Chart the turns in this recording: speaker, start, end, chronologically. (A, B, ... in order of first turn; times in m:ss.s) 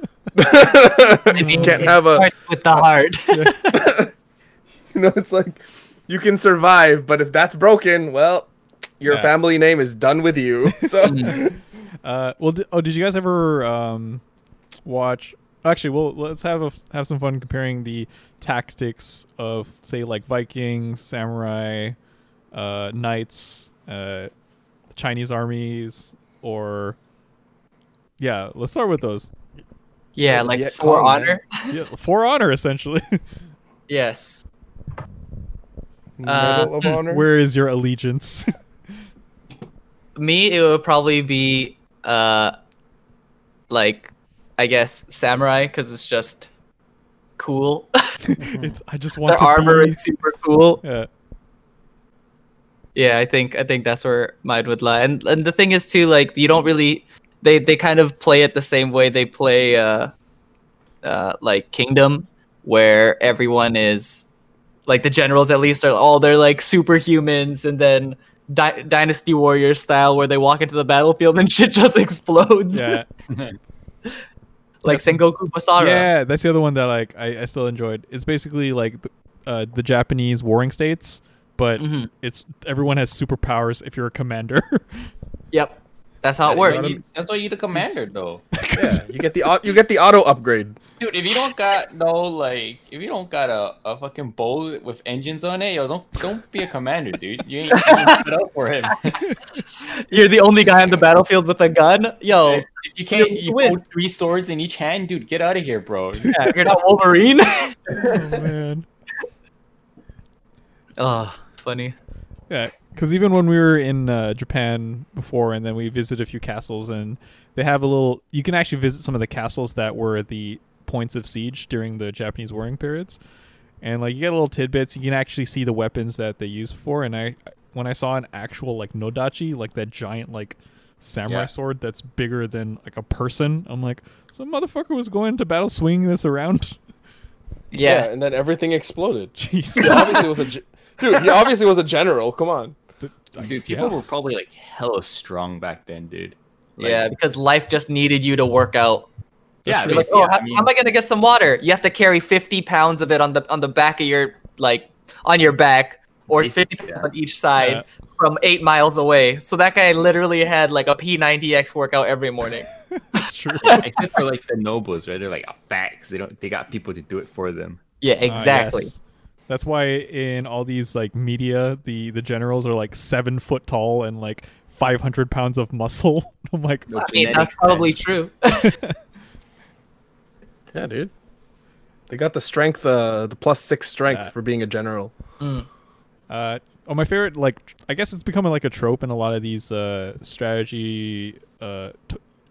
0:00.3-0:02.3 A
0:01.3-0:03.8 B
0:01.4-0:01.9 C
0:03.3-0:03.6 C
0:03.7-0:04.1 A
0:04.9-0:11.6 A
0:10.8-0:11.4 C
0:11.0-0:11.4 B
0:12.0-0:14.2 C
0:14.8-0:22.0 C
0:22.5-0:24.3 C
0:24.9-0:27.0 C
0:28.2-0:29.3 C
0:30.2-0:31.8 B
0:30.3-0:31.4 A
0:31.7-0:33.2 C
0:33.9-0:34.4 B
0:36.2-0:37.2 A
0:36.2-0:37.0 B
0:36.8-0:38.5 C
0:40.2-0:42.5 B
0:43.7-0:46.5 B
0:47.4-0:48.2 B
0:48.3-0:50.0 C
0:48.4-0:48.7 D
0:49.2-0:50.8 B
0:50.8-0:51.1 C
0:52.9-1:00.1 B
1:01.0-1:04.2 B
1:04.9-1:13.0 B
1:12.7-1:13.0 C
1:13.3-1:13.6 D
1:14.8-1:16.1 B
1:14.9-1:15.2 C
1:15.8-1:25.1 C
1:21.8-1:22.1 B
1:25.5-1:26.9 B
1:26.4-1:28.4 D
1:26.5-1:27.0 A
1:28.5-1:29.1 C
1:28.7-1:30.8 A
1:31.0-1:39.4 D
1:37.7-1:38.2 B
1:39.9-1:43.8 B
1:42.4-1:46.4 D
1:46.2-1:46.5 C
1:46.3-1:48.1 B
1:47.9-1:48.8 C
1:47.9-1:48.4 D
1:51.0-1:51.9 B
1:52.5-2:03.2 C
2:03.8-2:16.8 C
2:17.7-2:18.2 B
2:17.7-2:22.7 A
2:19.4-2:20.2 C
2:19.8-2:20.2 B
2:23.0-2:23.9 C
2:23.4-2:27.1 D
2:26.8-2:29.1 B
2:29.6-2:30.1 C
2:29.6-2:30.6 D
2:29.8-2:43.9 B
2:36.4-2:37.1 D
2:37.6-2:37.8 C
2:42.9-2:43.8 C
2:43.6-2:47.8 D
2:48.0-2:48.9 B
2:48.3-2:56.9 C
2:56.9-2:57.9 D
2:57.0-2:58.8 B
2:58.5-2:59.0 C
3:00.7-3:01.1 A
3:02.1-3:05.1 A
3:05.4-3:05.7 B
3:06.3-3:12.2 C